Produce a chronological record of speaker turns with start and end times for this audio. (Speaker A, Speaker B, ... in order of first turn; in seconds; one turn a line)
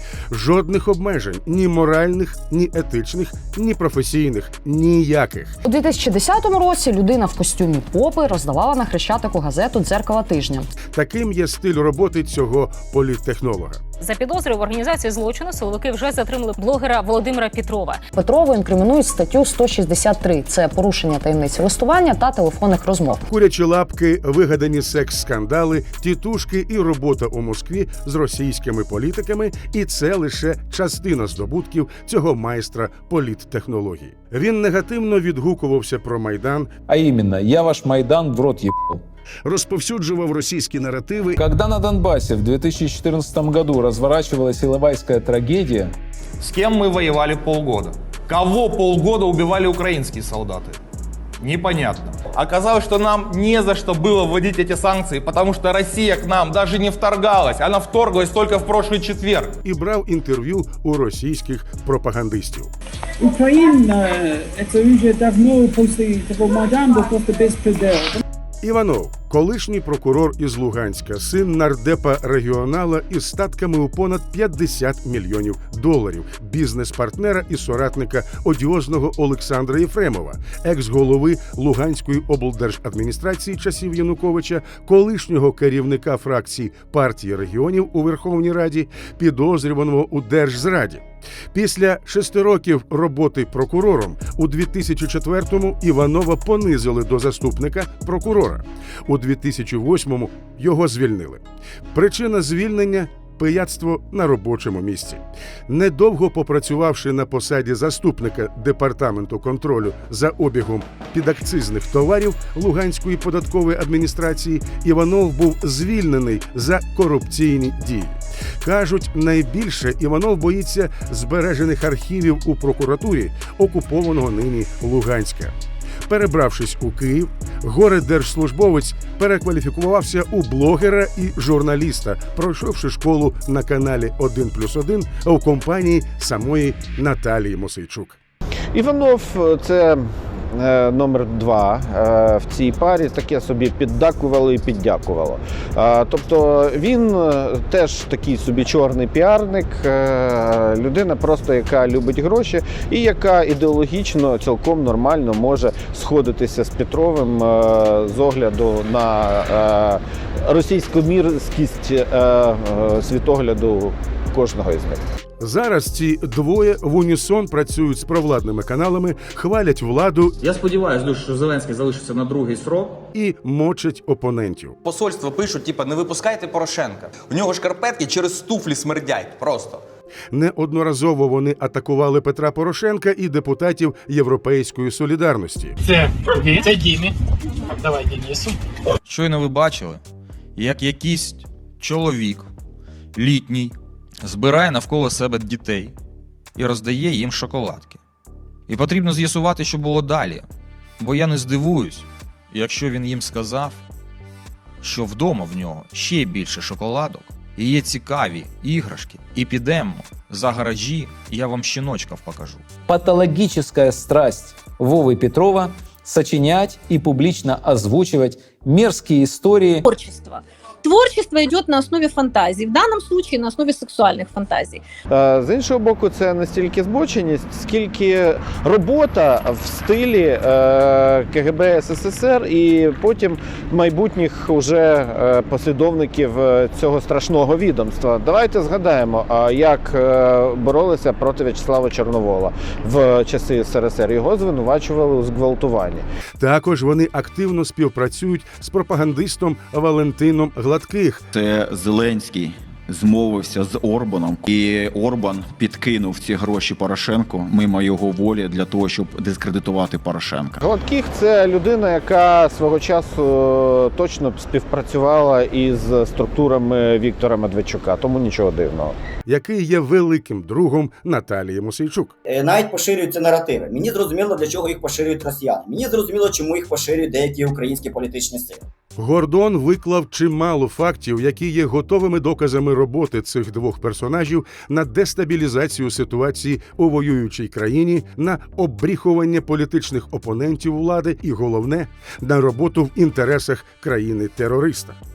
Speaker A: 0.3-5.6
Speaker B: 5.6-10.7
Speaker A: 10.9-13.8
Speaker C: 14.0-18.1
Speaker B: 18.1-23.2
Speaker A: 23.3-36.7
Speaker D: 36.9-39.0
Speaker A: 39.5-41.4
Speaker D: 41.4-45.9
Speaker E: 46.4-50.8
Speaker E: 51.4-59.5
Speaker A: 59.6-62.7
Speaker F: 63.3-68.0
Speaker A: 68.6-101.4
Speaker A: 101.9-125.5
Speaker A: 126.1-138.2
Speaker G: 138.7-165.0
Speaker A: 165.4-170.4
Speaker E: 170.5-173.0
Speaker A: 173.1-174.8
Speaker E: 175.2-176.4
Speaker E: 177.2-179.7
Speaker A: 180.3-185.8
Speaker F: 185.9-187.1
Speaker F: 187.8-188.6
Speaker H: 189.1-190.0
Speaker H: 190.6-192.5
Speaker H: 193.2-196.0
Speaker H: 196.6-198.0
Speaker H: 198.7-200.5
Speaker H: 201.0-203.8
Speaker H: 204.8-212.7
Speaker D: 212.9-219.8
Speaker I: 219.8-224.8
Speaker G: 225.1-246.1
Speaker A: 246.4-251.3
Speaker J: 251.3-260.6
Speaker G: 260.6-268.9
Speaker A: 269.2-272.2
Speaker K: 272.3-278.6
Speaker A: 279.0-295.0